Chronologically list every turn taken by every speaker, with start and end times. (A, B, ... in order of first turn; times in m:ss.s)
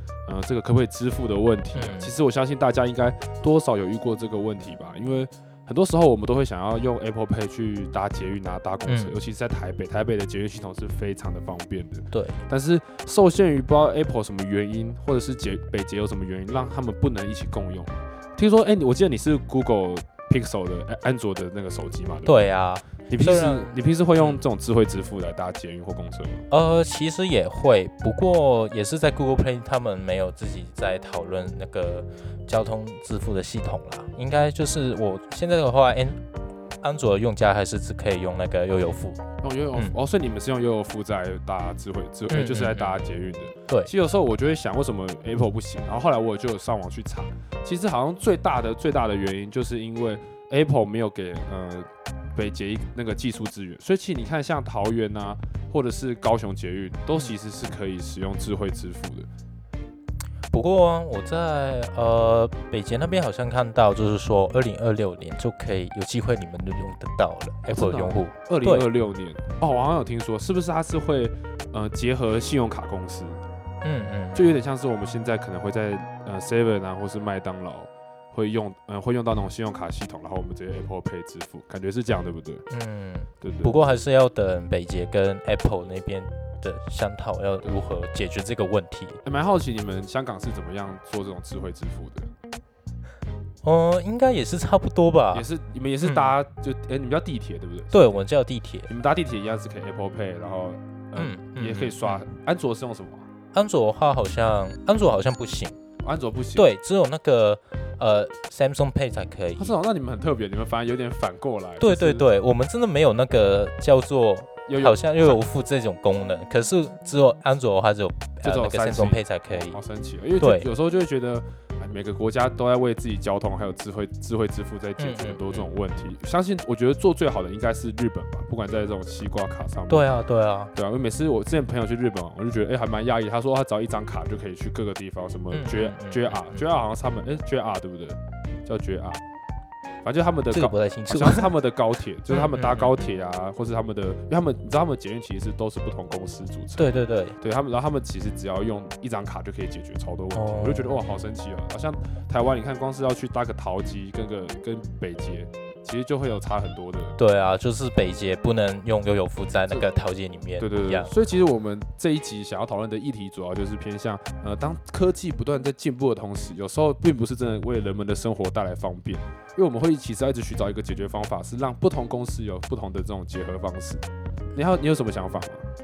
0:00.2-0:22.5 A
0:01.7-0:02.1 B
0:08.8-0:09.2 B
0:12.1-0:12.4 B
0:22.2-0:24.4 B
0:23.1-0:26.4 A
0:26.5-0:36.2 B
0:36.8-0:39.2 B
0:39.4-0:59.3 A
0:42.3-0:43.0 B
1:00.5-1:08.9 B
1:07.7-1:13.4 A
1:13.8-1:14.5 B
1:14.3-1:22.6 A
1:22.7-1:29.2 B
1:23.4-1:23.8 A
1:29.2-1:32.3 A
1:33.6-1:35.4 B
1:35.3-1:38.2 A
1:36.0-1:36.3 B
1:37.9-1:38.9 B
1:38.9-1:43.2 A
1:41.1-1:42.2 B
1:43.5-1:45.8 B
1:46.0-1:46.7 A
1:46.6-1:49.7 B
1:49.6-1:52.3 A
1:51.8-1:59.8 B
1:54.7-1:55.4 A
1:58.4-2:10.1 A
2:00.4-2:00.7 B
2:05.0-2:05.7 B
2:09.9-2:10.7 B
2:10.7-2:19.2 A
2:15.5-2:16.6 B
2:20.0-2:37.2 A
2:20.5-2:21.5 B
2:22.3-2:23.1 B
2:26.8-2:27.4 B
2:30.3-2:31.0 B
2:37.2-2:41.1 B
2:40.6-2:55.6 A